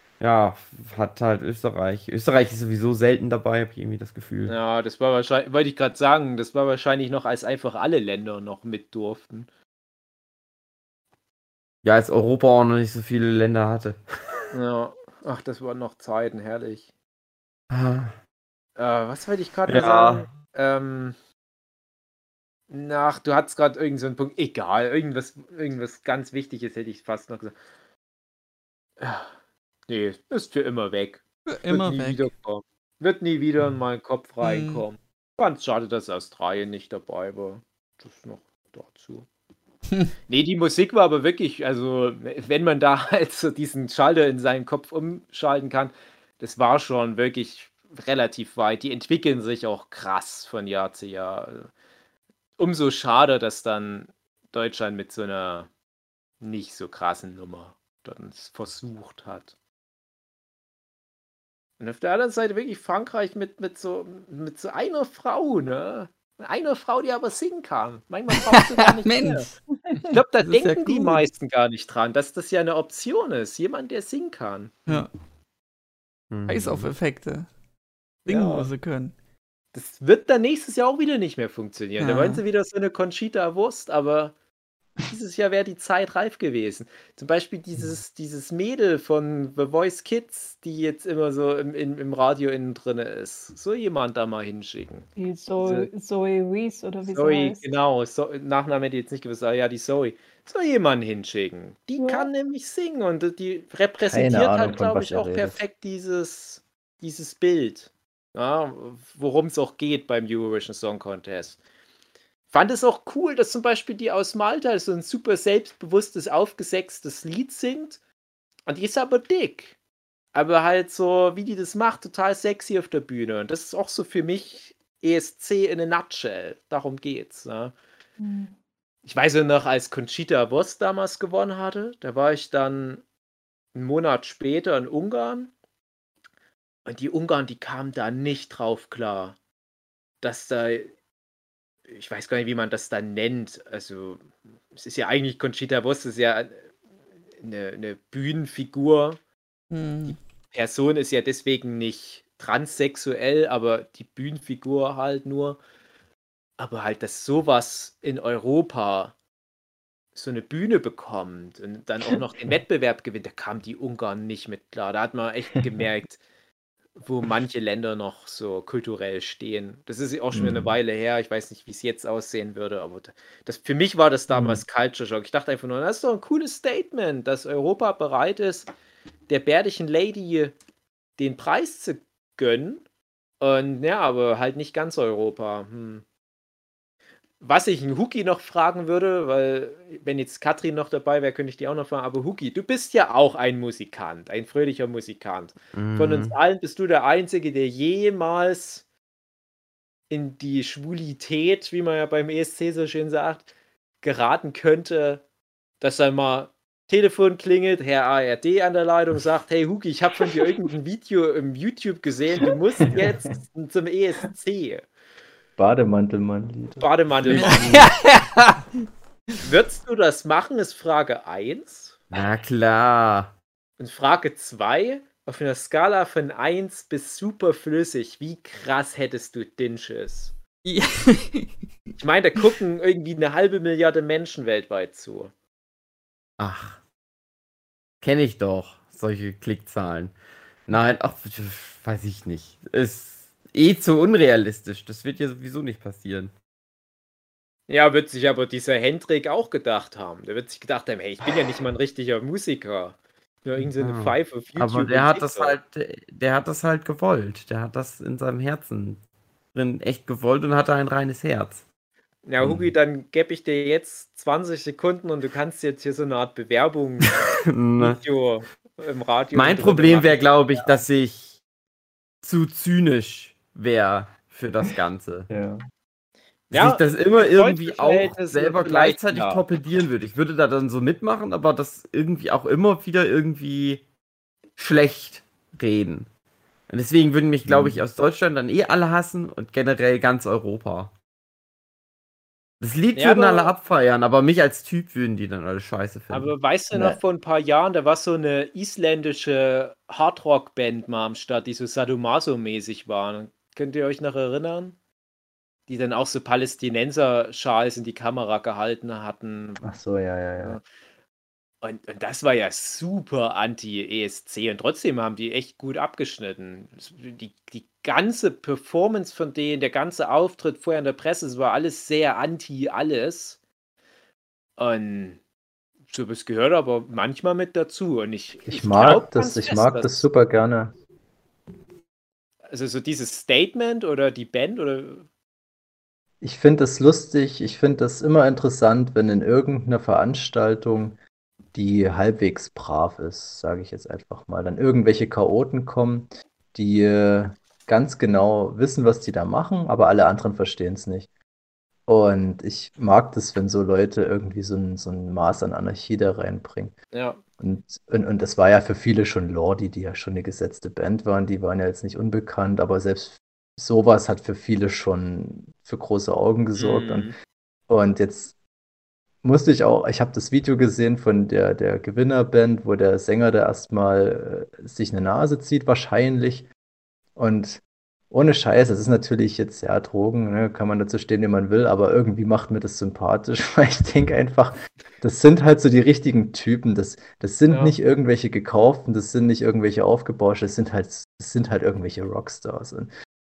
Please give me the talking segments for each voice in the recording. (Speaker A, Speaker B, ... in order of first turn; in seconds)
Speaker A: 0.2-4.5, 11.8-14.0, 17.7-18.1, 19.6-20.3, 76.3-76.9, 195.7-196.3, 217.4-217.9, 222.1-223.3, 236.4-236.8, 238.0-240.1, 240.7-246.3, 253.8-259.0, 259.5-261.6, 262.4-262.7, 267.1-268.0, 269.3-271.4, 272.2-275.3, 276.5-283.8, 284.6-286.1, 286.7-290.9, 292.6-296.3
Speaker B: 4.5-9.5, 14.5-16.9, 18.8-21.1, 22.7-27.6, 29.0-29.3, 29.9-39.3, 40.3-51.7, 52.6-55.7, 56.4-59.5, 61.8-69.5, 70.1-74.9, 78.2-78.7, 79.7-84.3, 85.0-95.1, 95.6-95.9, 97.0-111.6, 112.5-118.0, 118.7-119.7, 120.3-127.7, 129.0-133.0, 133.7-135.5, 136.9-139.4, 140.2-140.9, 141.9-146.6, 147.4-149.2, 150.1-155.6, 156.6-159.1, 160.1-166.2, 167.0-178.7, 179.3-180.5, 181.2-182.8, 183.4-186.0, 187.4-198.8, 200.1-203.5, 204.0-205.2, 205.8-214.9, 216.8-217.6, 219.4-222.0, 223.8-230.3, 232.0-235.3, 247.7-255.6, 262.2-267.2, 267.8-270.7, 276.5-279.4, 292.9-293.5, 296.1-304.8, 305.7-309.6, 311.6-323.4, 324.6-325.2, 325.9-330.0, 332.5-335.1, 356.9-357.2, 366.6-367.1, 387.5-387.7
Speaker C: 31.5-32.3, 34.4-34.8, 68.3-69.6, 70.4-71.2, 76.5-77.5, 78.2-79.1, 82.0-82.4, 149.7-150.2, 217.4-218.6, 230.6-231.5
Speaker D: 95.2-97.6, 102.0-102.3, 128.2-128.5
Speaker E: 104.1-105.6, 170.3-170.8, 174.3-174.6, 215.6-217.6, 275.3-275.6, 287.4-287.8, 296.7-297.0, 309.6-310.6, 328.4-330.8, 336.2-341.0, 341.5-351.1, 351.9-356.8, 357.4-367.1, 367.7-368.3, 369.2-376.5, 377.1-392.9